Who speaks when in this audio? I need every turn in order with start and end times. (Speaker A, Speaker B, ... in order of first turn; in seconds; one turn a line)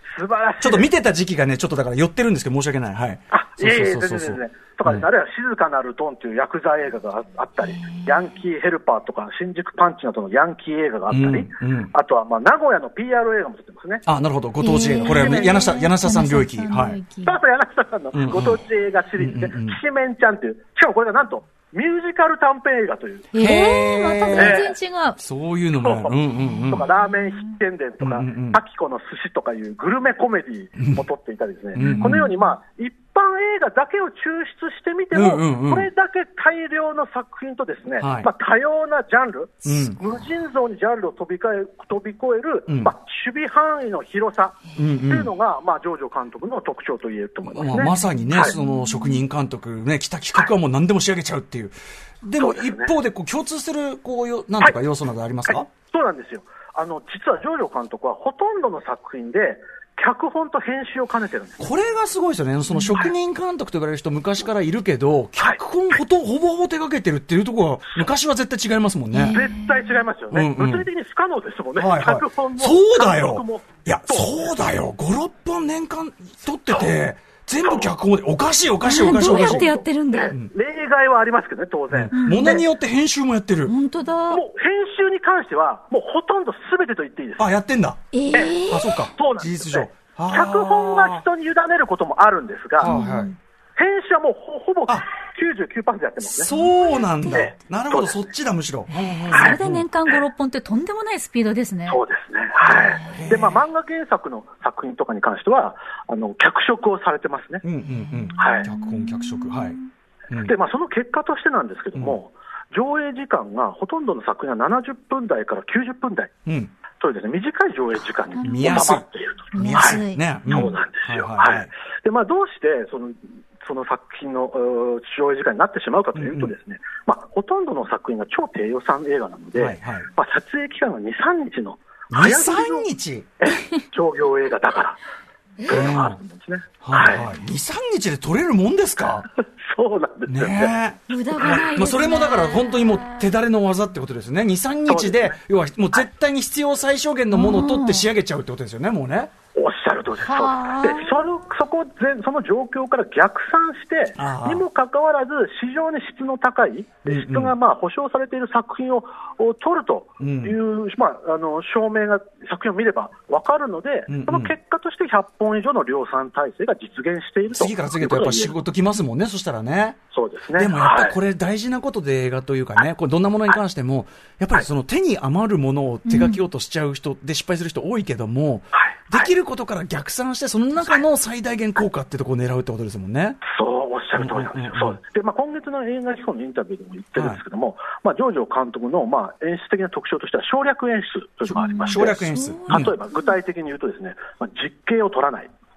Speaker A: 0.1-0.9
Speaker B: 0.6-5.1
Speaker A: 3.3-14.1
Speaker C: 7.6-8.2
Speaker B: 11.1-11.9
Speaker B: 14.1-17.0
Speaker C: 14.6-17.4
Speaker A: 15.1-15.7
Speaker A: 17.2-23.3
Speaker B: 18.1-18.6
Speaker B: 19.2-19.8
Speaker C: 23.3-25.2
Speaker B: 23.4-24.6
Speaker A: 24.3-24.8
Speaker B: 25.2-26.9
Speaker A: 25.8-48.5
Speaker B: 28.0-28.6
Speaker B: 30.8-31.0
Speaker B: 31.8-32.3
Speaker C: 31.8-32.3
Speaker B: 35.1-35.9
Speaker B: 38.0-38.3
Speaker B: 39.6-40.0
Speaker B: 42.7-42.9
Speaker B: 44.8-45.3
Speaker B: 47.5-55.7
Speaker C: 48.3-48.7
Speaker A: 52.4-52.9
Speaker A: 55.5-61.7
Speaker B: 61.6-69.5
Speaker C: 69.1-69.9
Speaker A: 69.3-74.5
Speaker B: 70.3-70.9
Speaker B: 71.8-79.8
Speaker A: 77.6-77.9
Speaker C: 78.8-80.3
Speaker A: 79.2-82.7
Speaker B: 81.9-83.8
Speaker C: 82.1-82.5
Speaker C: 83.7-84.4
Speaker A: 84.3-87.5
Speaker B: 87.4-88.0
Speaker C: 88.1-89.1
Speaker A: 88.3-88.6
Speaker B: 88.6-91.2
Speaker A: 89.1-92.9
Speaker B: 92.8-93.3
Speaker C: 92.8-93.4
Speaker A: 93.8-96.5
Speaker B: 96.4-99.8
Speaker C: 96.5-97.1
Speaker A: 97.3-98.3
Speaker C: 99.0-102.0
Speaker A: 99.3-99.6
Speaker A: 101.9-107.6
Speaker C: 102.7-103.3
Speaker B: 103.1-103.6
Speaker B: 107.6-109.8
Speaker C: 108.2-109.8
Speaker A: 108.4-108.7
Speaker A: 110.4-116.3
Speaker B: 116.5-116.7
Speaker A: 117.0-132.9
Speaker C: 118.4-118.7
Speaker B: 118.4-119.0
Speaker C: 119.5-120.7
Speaker B: 119.6-121.7
Speaker B: 126.2-126.5
Speaker B: 129.6-130.1
Speaker B: 132.1-133.3
Speaker A: 133.4-135.0
Speaker A: 135.6-137.3
Speaker B: 135.7-136.2
Speaker B: 136.8-139.3
Speaker A: 139.6-140.7
Speaker B: 140.3-149.3
Speaker C: 141.1-143.2
Speaker A: 144.9-145.4
Speaker C: 147.3-148.1
Speaker A: 149.5-168.5
Speaker C: 150.2-151.2
Speaker B: 154.2-154.7
Speaker B: 157.1-157.6
Speaker B: 160.2-160.6
Speaker B: 164.1-164.5
Speaker B: 167.5-170.0
Speaker A: 170.1-171.2
Speaker B: 170.6-183.4
Speaker C: 176.1-176.4
Speaker A: 178.7-179.3
Speaker A: 183.4-195.5
Speaker B: 184.2-185.0
Speaker B: 187.2-187.4
Speaker C: 191.5-193.2
Speaker B: 191.8-192.9